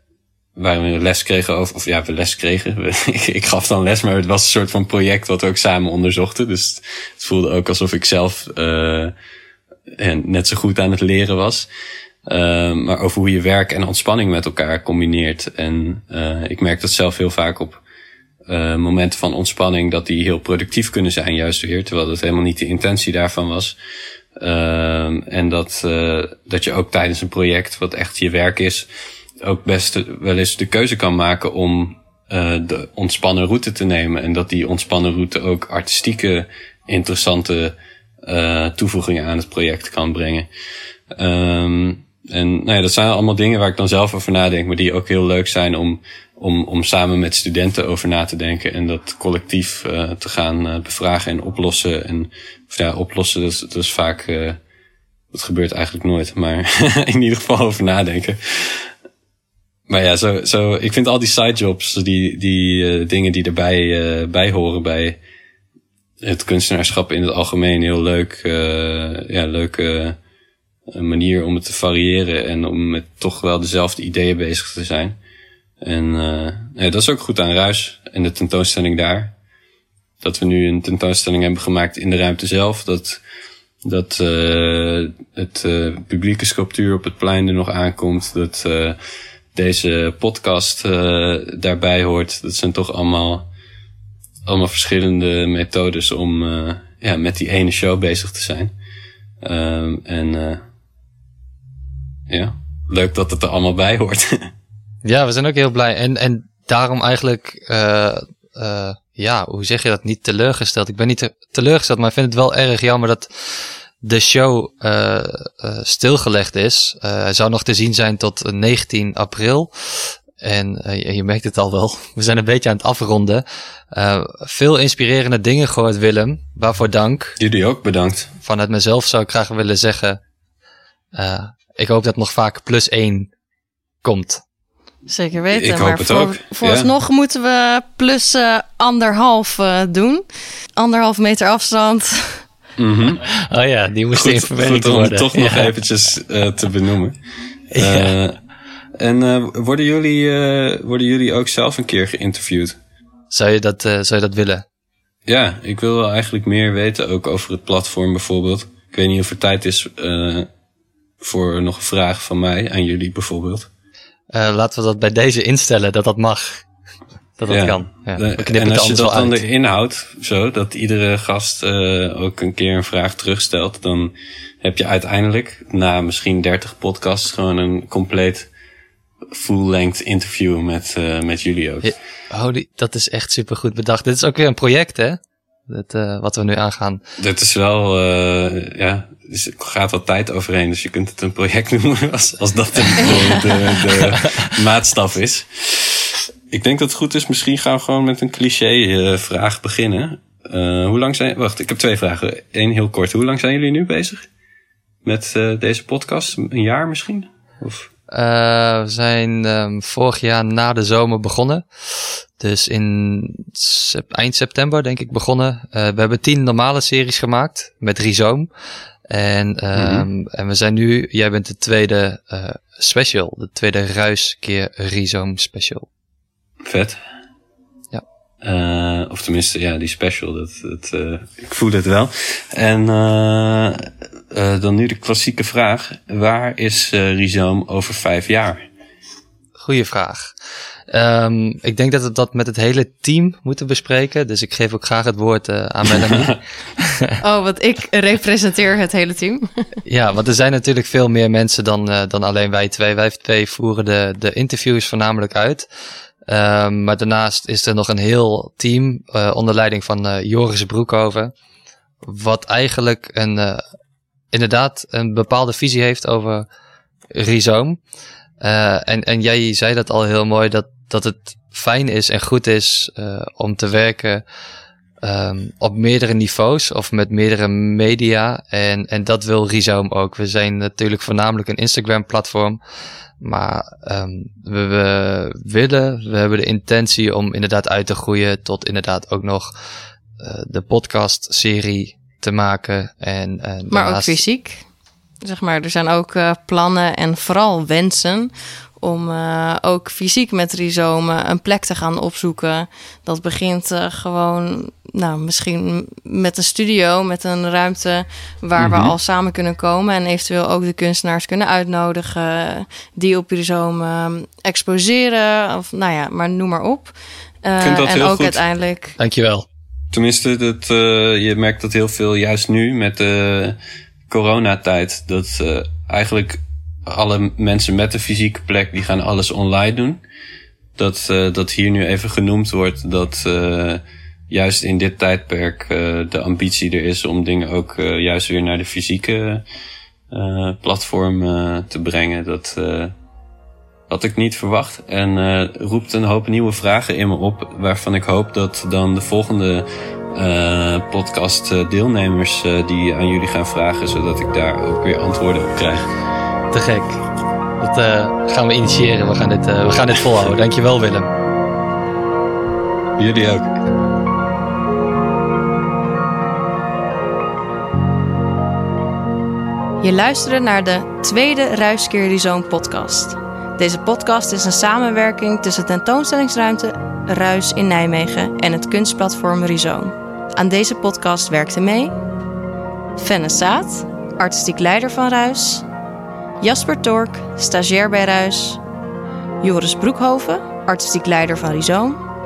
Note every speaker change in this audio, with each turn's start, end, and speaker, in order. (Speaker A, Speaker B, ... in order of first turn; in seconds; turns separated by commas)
Speaker A: 0.6-9.1, Speaker A: 10.0-11.7, Speaker A: 12.3-17.8, Speaker A: 18.5-23.8, Speaker A: 24.4-28.9, Speaker A: 29.4-40.5, Speaker A: 41.1-54.6, Speaker A: 55.3-58.9, Speaker A: 59.9-65.2, Speaker A: 66.2-70.2, Speaker A: 70.9-75.2, Speaker A: 75.8-79.3, Speaker A: 80.2-83.2, Speaker A: 83.8-89.0, Speaker A: 89.5-93.5, Speaker A: 94.5-98.7, Speaker A: 99.4-100.6, Speaker A: 102.3-104.5, Speaker B: 105.0-127.4, Speaker A: 127.4-128.3, Speaker B: 128.4-130.2, Speaker B: 131.1-133.3, Speaker B: 134.0-134.4, Speaker C: 135.1-140.2, Speaker A: 135.5-136.9, Speaker C: 140.8-142.4, Speaker A: 142.8-143.2, Speaker B: 143.2-145.7, Speaker A: 144.1-147.2, Speaker B: 147.7-148.1, Speaker A: 147.8-148.4, Speaker A: 149.0-152.8, Speaker B: 153.3-154.6, Speaker A: 155.2-160.5, Speaker A: 161.2-163.7, Speaker B: 164.3-166.7, Speaker B: 167.4-169.4, Speaker A: 167.5-178.5, Speaker A: 179.3-182.0, Speaker B: 181.8-187.0, Speaker A: 187.2-204.3, Speaker A: 205.0-207.9, Speaker B: 208.1-218.5, Speaker B: 219.1-225.9, Speaker A: 219.7-220.1, Speaker A: 226.6-227.0, Speaker A: 228.4-238.6, Speaker B: 239.6-240.3, Speaker B: 240.9-247.2, Speaker C: 247.2-249.7, Speaker B: 249.8-255.7, Speaker B: 256.3-261.3, Speaker B: 262.0-263.6, Speaker B: 264.3-266.5, Speaker B: 267.1-267.8, Speaker B: 268.4-274.2, Speaker B: 275.0-282.6, Speaker B: 283.2-289.5, Speaker B: 290.2-294.2, Speaker C: 293.7-294.6, Speaker C: 295.2-319.0, Speaker A: 308.6-308.9, Speaker A: 317.6-318.4, Speaker B: 319.0-319.4, Speaker A: 319.9-323.6, Speaker A: 324.1-330.0, Speaker A: 330.8-339.4, Speaker A: 340.1-342.9, Speaker A: 343.9-355.9, Speaker B: 356.5-357.0, Speaker B: 357.6-361.1, Speaker A: 363.0-363.6, Speaker C: 369.8-381.9, Speaker C: 383.0-385.6, Speaker C: 386.4-388.6, Speaker C: 389.4-392.0